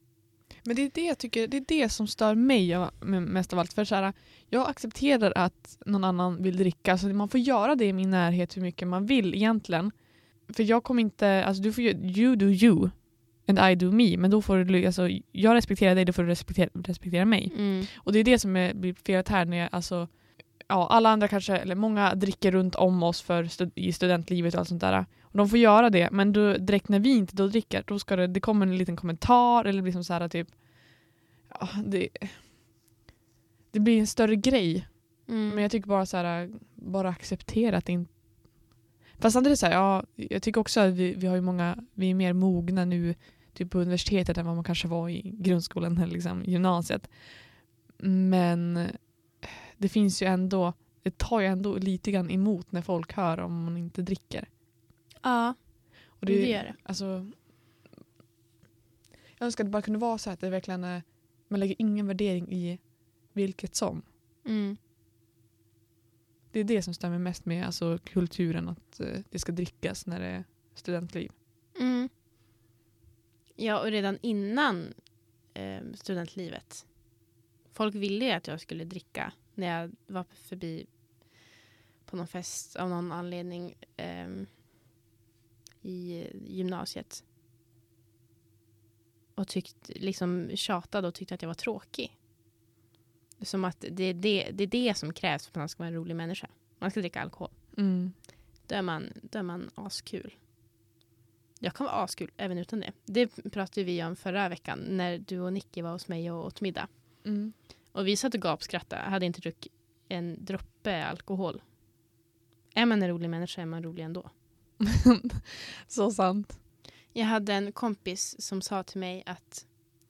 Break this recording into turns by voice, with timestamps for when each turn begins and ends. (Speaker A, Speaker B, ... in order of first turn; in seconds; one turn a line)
Speaker A: 0.6-9.9
Speaker A: 10.5-30.6
Speaker B: 17.5-17.9
Speaker A: 31.5-32.5
Speaker A: 33.7-38.1
Speaker B: 35.3-35.7
Speaker A: 39.2-47.2
Speaker A: 48.0-54.5
Speaker B: 55.2-56.8
Speaker A: 56.2-57.4
Speaker A: 59.4-64.1
Speaker B: 64.4-64.8
Speaker A: 66.5-71.3
Speaker B: 71.8-72.1
Speaker B: 73.6-75.0
Speaker B: 75.5-76.9
Speaker B: 77.7-80.9
Speaker B: 82.0-84.5
Speaker B: 85.8-87.2
Speaker B: 89.4-92.1
Speaker B: 93.4-97.6
Speaker A: 97.8-98.1
Speaker B: 98.7-100.4
Speaker B: 101.6-106.9
Speaker A: 107.2-107.5
Speaker B: 107.9-111.6
Speaker B: 112.7-114.3
Speaker A: 114.8-116.6
Speaker B: 117.1-119.7